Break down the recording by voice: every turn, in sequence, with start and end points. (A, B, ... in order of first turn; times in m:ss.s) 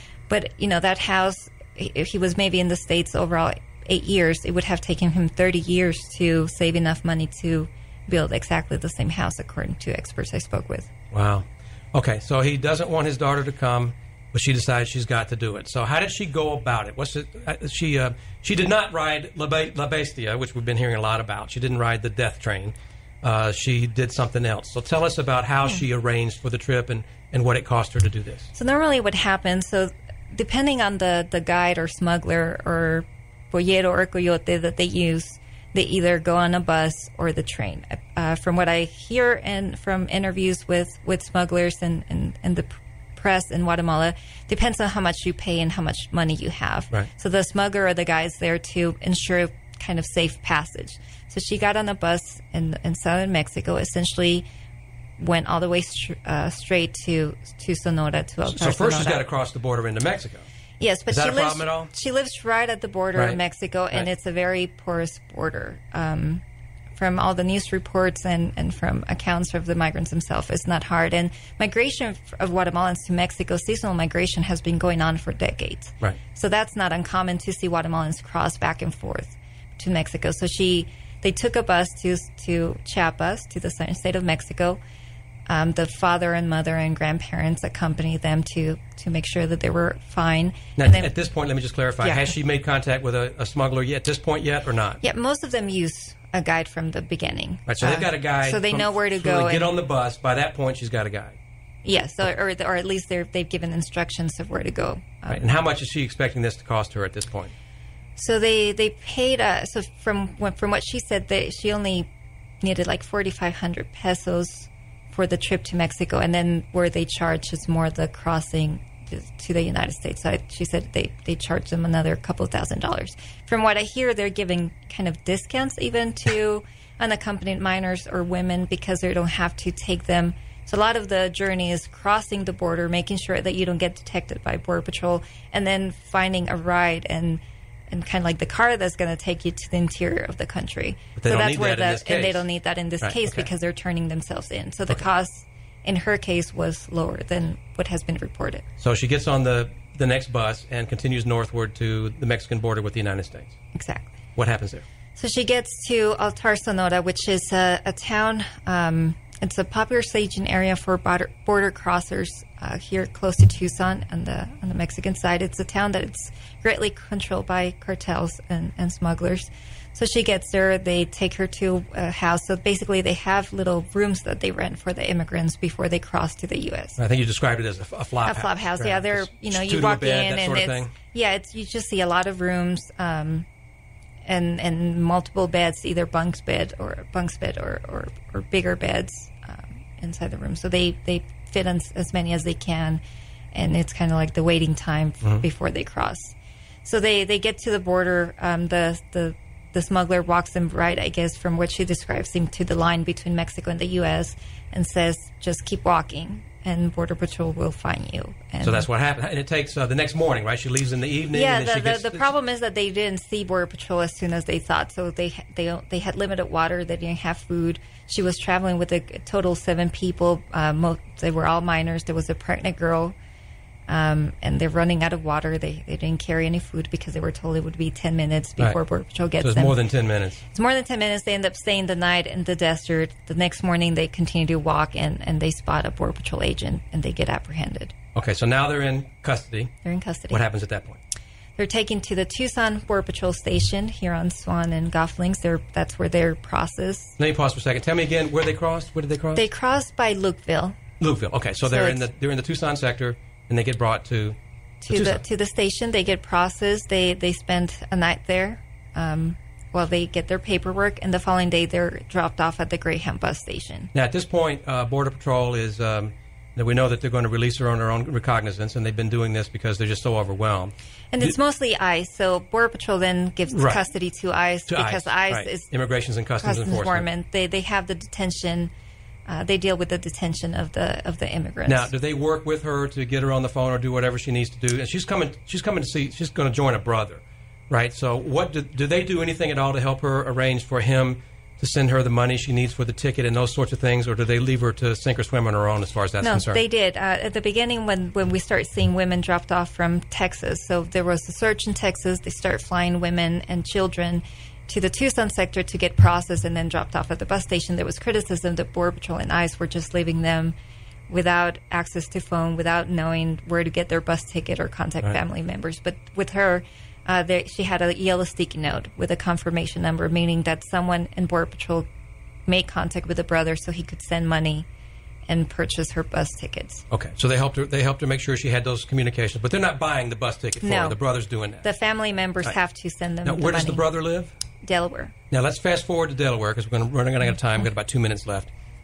0:00.3-0:10.9 A
0:11.1-0:28.5 B
0:28.5-0:54.5 A
0:55.2-0:59.2 A
0:58.5-1:00.4 B
1:00.8-1:06.4 A
1:01.1-1:01.9 B
1:07.0-1:24.8 A
1:25.5-1:31.1 A
1:30.8-1:35.0 B
1:32.0-1:32.3 A
1:35.0-1:39.7 A
1:37.7-1:41.4 B
1:41.8-1:45.4 A
1:45.3-1:47.5 B
1:48.2-1:52.1 A
1:52.6-2:28.7 A
2:21.2-2:22.5 B
2:23.0-2:23.5 B
2:28.8-2:33.6 B
2:33.7-2:34.1 A
2:34.4-2:34.9 B
2:35.2-2:57.0 A
2:57.0-3:00.9 B
2:58.2-3:03.5 A
3:04.2-3:13.0 A
3:13.5-3:28.9 A
3:28.6-3:32.3 B
3:31.3-3:43.2 A
3:43.9-3:49.8 A
3:49.4-3:50.4 B
3:50.5-3:57.9 A
3:58.2-3:59.7 B
3:59.8-4:00.4 A
4:00.3-4:01.0 B
4:01.6-4:07.2 A
4:07.2-4:09.4 B
4:09.4-4:10.8 A
4:11.0-4:14.4 B
4:11.6-4:12.0 A
4:14.8-4:23.9 A
4:14.9-4:15.2 B
4:23.9-4:31.4 B
4:31.1-4:35.7 A
4:33.5-4:33.8 B
4:34.7-4:37.1 B
4:36.4-4:38.7 A
4:39.3-4:41.9 A
4:41.7-4:56.6 B
4:56.2-5:10.6 A
5:11.1-5:21.9 A
5:22.5-5:24.7 A
5:25.3-5:26.8 A
5:26.9-5:31.7 B
5:30.6-5:31.0 A
5:31.6-5:33.8 A
5:33.2-5:34.3 B
5:34.6-5:35.1 A
5:35.3-5:38.5 B